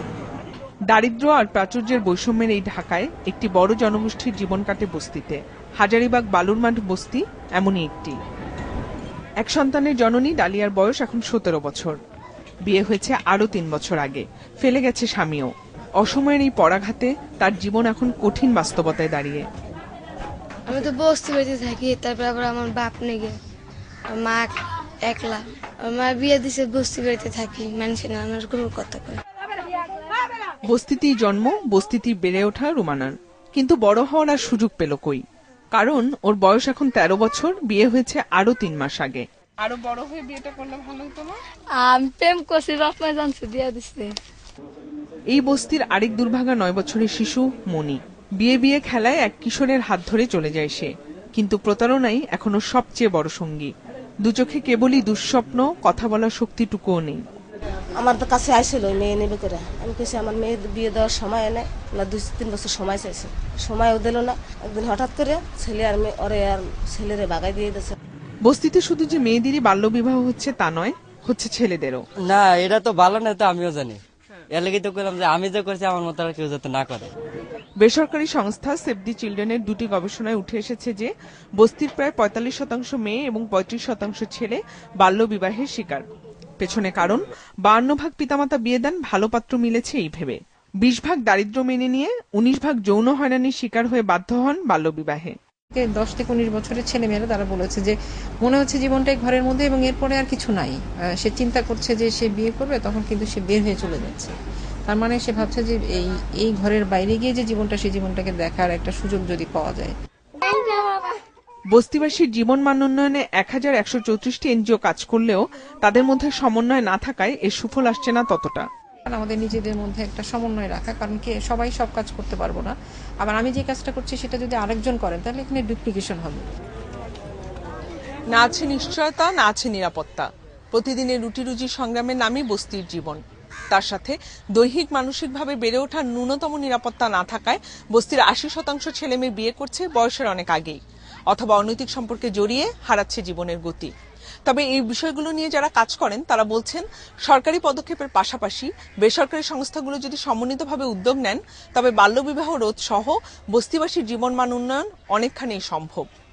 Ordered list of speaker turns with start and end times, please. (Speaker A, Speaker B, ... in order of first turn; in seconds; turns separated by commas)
Speaker A: 0.9-8.2, Speaker A: 9.4-11.9, Speaker A: 12.7-19.4, Speaker B: 20.6-23.4, Speaker B: 24.1-24.5, Speaker B: 25.0-29.2, Speaker A: 30.7-35.2, Speaker A: 35.8-41.4, Speaker B: 41.8-44.0, Speaker A: 45.3-53.7, Speaker A: 54.2-57.2, Speaker C: 58.0-67.9, Speaker A: 68.4-72.0, Speaker D: 72.2-74.0, Speaker D: 74.5-77.1, Speaker A: 77.8-86.0, Speaker A: 86.6-95.3, Speaker E: 95.7-104.3, Speaker E: 104.9-109.9, Speaker A: 111.7-118.7, Speaker E: 119.1-126.5, Speaker A: 128.3-133.2, Speaker A: 133.7-140.8, Speaker A: 141.3-143.9, Speaker A: 144.4-156.1